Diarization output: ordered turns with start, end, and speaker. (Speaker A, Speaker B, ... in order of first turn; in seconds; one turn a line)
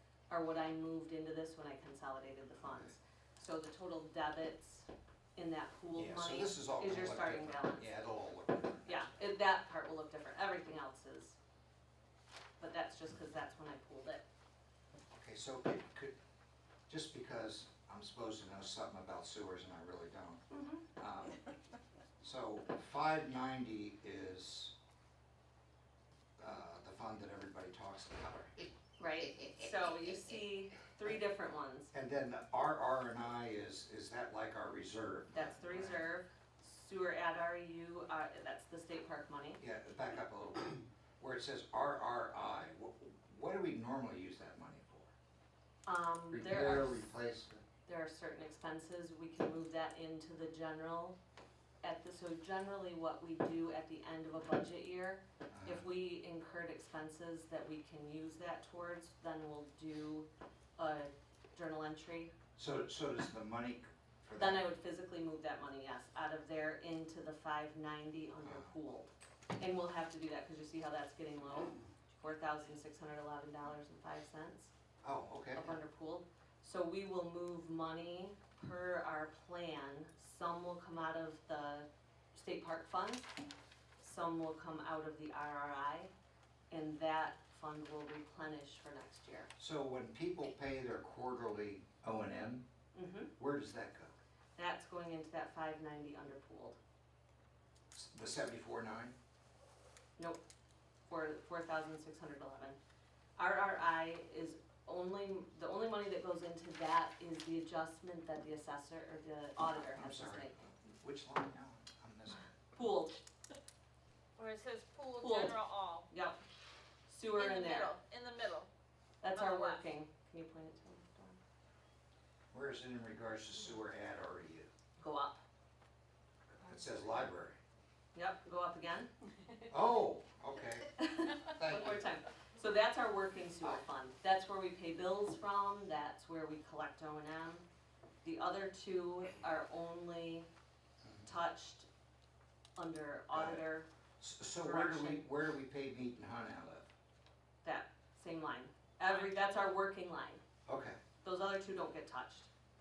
Speaker A: 0.3-7.9
Speaker B: 2.6-2.9
Speaker B: 5.9-9.1
Speaker A: 8.8-11.4
Speaker A: 12.6-14.2
Speaker B: 15.1-16.1
Speaker B: 16.9-20.4
Speaker A: 20.5-20.9
Speaker B: 20.9-21.4
Speaker B: 22.2-24.7
Speaker B: 26.4-28.6
Speaker A: 29.0-31.9
Speaker B: 31.9-36.1
Speaker A: 35.3-39.6
Speaker B: 39.6-45.1
Speaker A: 45.9-47.1
Speaker B: 46.3-47.6
Speaker A: 47.9-51.2
Speaker A: 51.8-60.3
Speaker B: 55.5-55.8
Speaker A: 60.8-62.3
Speaker B: 62.5-64.7
Speaker A: 64.4-74.7
Speaker B: 68.4-68.8
Speaker B: 75.0-75.8
Speaker A: 75.5-83.3
Speaker A: 84.0-86.1
Speaker A: 86.7-89.5
Speaker B: 89.6-92.6
Speaker A: 92.9-93.3
Speaker B: 93.4-94.1
Speaker A: 94.6-96.8
Speaker B: 97.9-99.2
Speaker A: 101.1-102.8
Speaker A: 103.4-110.5
Speaker B: 109.9-112.5
Speaker A: 112.7-113.2
Speaker C: 114.4-116.1
Speaker A: 115.2-115.6
Speaker A: 116.1-116.4
Speaker A: 117.1-117.9
Speaker C: 117.3-118.7
Speaker A: 119.2-121.4
Speaker C: 119.3-119.8
Speaker B: 122.5-124.7
Speaker A: 125.0-125.4
Speaker B: 126.5-127.6
Speaker A: 128.1-129.1
Speaker B: 129.7-132.0
Speaker A: 131.0-137.6
Speaker A: 138.2-140.5
Speaker A: 141.2-141.9
Speaker A: 142.8-143.9
Speaker B: 143.3-143.6
Speaker B: 144.2-146.9
Speaker A: 144.6-145.2
Speaker A: 147.6-150.4
Speaker B: 150.7-151.0
Speaker A: 151.2-152.5